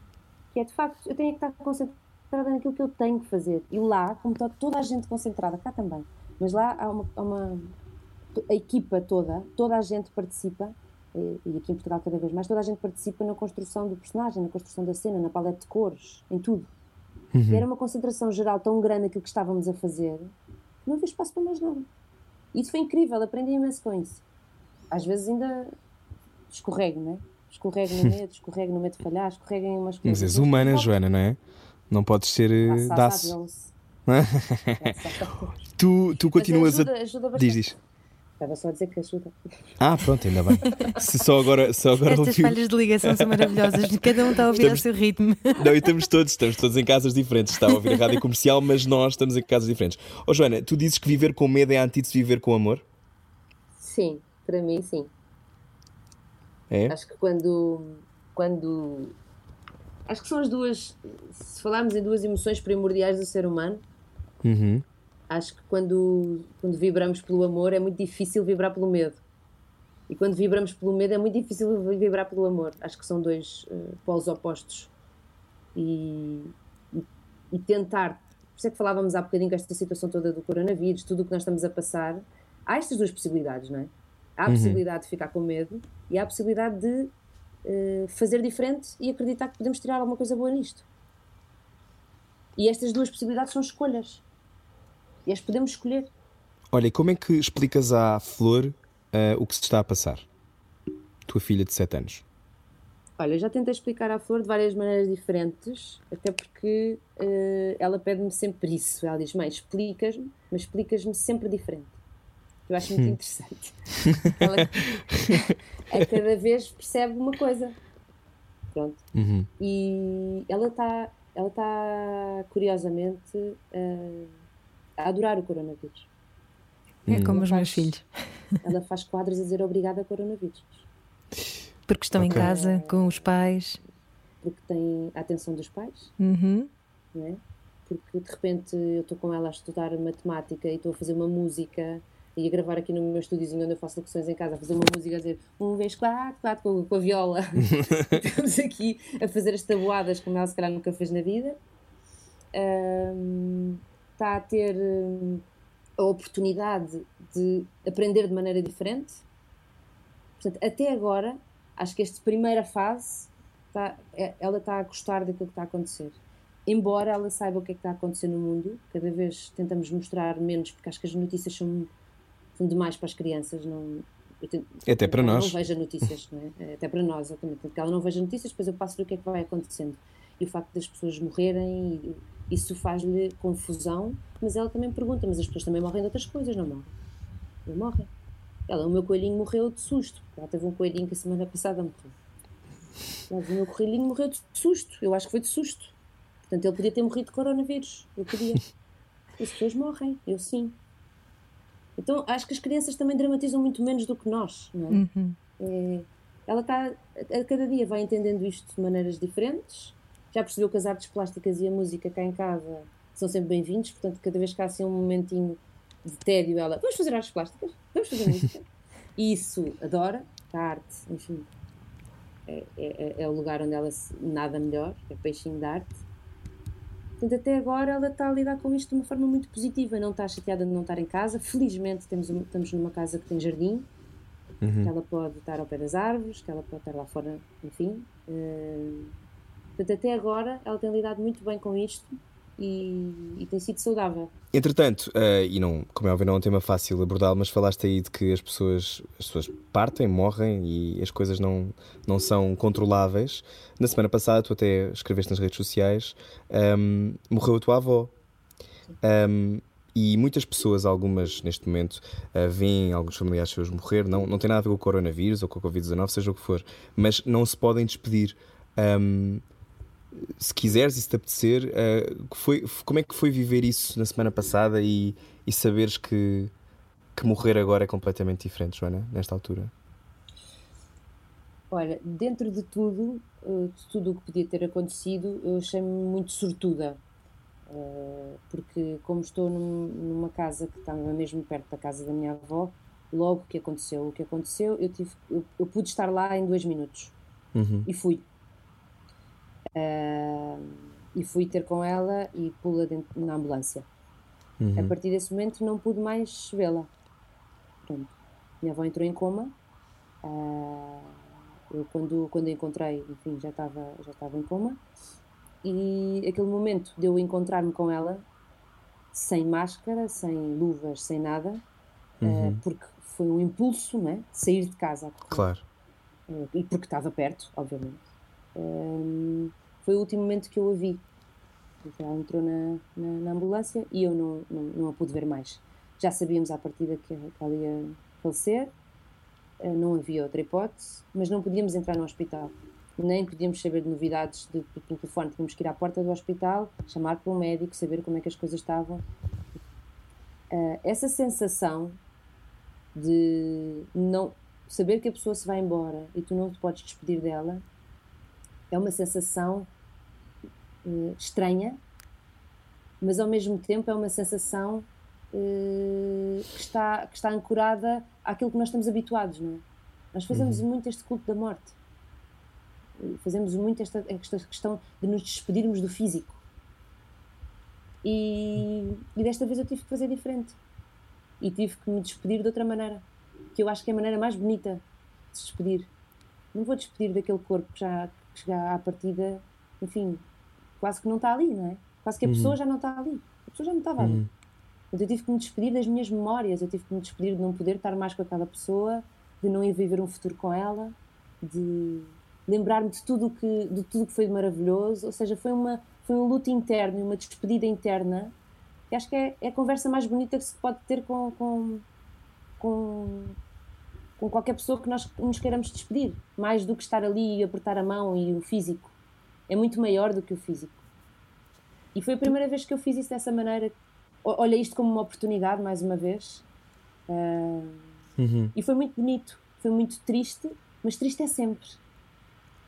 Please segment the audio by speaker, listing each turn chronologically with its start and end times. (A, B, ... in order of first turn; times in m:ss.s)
0:00.5-0:07.7 A
0:08.3-0:16.7 A
0:17.3-0:17.6 B
0:17.5-0:20.3 A
0:20.8-0:21.9 A
0:22.5-0:24.2 A
0:24.9-0:25.7 A
0:26.5-0:30.9 A
0:30.0-0:31.4 B
0:31.9-0:33.3 B
0:32.6-0:33.7 A
0:34.1-0:34.9 B
0:34.8-0:35.5 A
0:35.7-0:37.7 B
0:36.3-0:37.7 A
0:38.4-0:39.7 A
0:39.8-0:43.8 B
0:42.0-0:45.6 C
0:44.6-0:44.8 B
0:45.6-0:52.8 B
0:53.8-0:55.1 A
0:56.7-0:57.0 B
0:56.9-0:59.1 A
1:00.1-1:03.8 A
1:04.4-1:04.8 B
1:05.3-1:09.2 A
1:10.1-1:14.9 A
1:15.7-1:27.1 A
1:24.5-1:24.8 B
1:27.6-1:30.9 A
1:32.6-1:34.2 A
1:35.3-1:36.1 A
1:36.7-1:40.3 B
1:41.3-1:42.2 B
1:43.2-1:52.0 A
1:52.7-1:57.8 A
1:58.7-1:59.0 A
1:59.1-1:59.5 B
1:59.6-2:04.3 A
2:05.0-2:06.1 A
2:07.1-2:07.3 B
2:07.1-2:08.0 C
2:07.1-2:07.9 A
2:08.6-2:10.9 A
2:11.9-2:13.8 C
2:12.2-2:12.5 B
2:12.3-2:13.3 A
2:14.4-2:16.1 A
2:16.2-2:16.7 C
2:17.1-2:31.6 A
2:32.5-2:35.4 A
2:36.0-2:39.2 A
2:40.4-2:51.9 A
2:52.6-3:06.9 A
2:54.9-2:55.6 B
3:07.6-3:08.1 A
3:08.7-3:12.1 A
3:13.3-3:16.0 A
3:16.5-3:18.6 A
3:19.4-3:20.8 A
3:22.0-3:25.0 A
3:24.9-3:25.4 C
3:25.6-3:41.5 A
3:42.5-3:46.0 A
3:47.2-3:53.9 A
3:54.6-3:54.9 B
3:54.8-3:59.1 A
3:59.8-4:04.3 A
4:04.5-4:18.1 B
4:19.0-4:29.4 B
4:30.2-4:36.5 B
4:37.2-4:39.7 B
4:41.7-4:47.0 A
4:47.7-4:57.1 A
4:57.6-4:57.9 B
4:57.9-4:58.2 A
4:59.7-5:03.9 A
5:04.6-5:04.9 B
5:04.8-5:06.9 A
5:07.9-5:09.5 A
5:10.2-5:11.1 A
5:11.7-5:14.8 A
5:15.6-5:18.2 A
5:19.1-5:21.6 A
5:22.2-5:22.6 B
5:22.2-5:25.5 A
5:25.3-5:25.6 B
5:26.3-5:28.0 A
5:28.6-5:31.0 A
5:31.8-5:38.7 A
5:39.6-5:49.0 A
5:50.5-5:52.0 A
5:53.0-5:57.6 A
5:58.7-5:59.7 A
6:00.8-6:01.8 A
6:03.0-6:11.7 A
6:10.3-6:10.6 B
6:13.0-6:16.4 A
6:18.0-6:20.6 A
6:21.4-6:23.0 A
6:23.6-6:25.9 A
6:26.5-6:30.2 A
6:30.8-6:34.2 A
6:32.2-6:32.6 B
6:34.0-6:34.3 B
6:34.9-6:48.3 A
6:48.9-6:51.8 A
6:52.6-6:53.4 A
6:54.2-6:58.9 A
6:59.5-7:00.8 A
7:02.0-7:06.4 A
7:07.1-7:07.9 A
7:08.2-7:08.5 B
7:08.6-7:11.8 A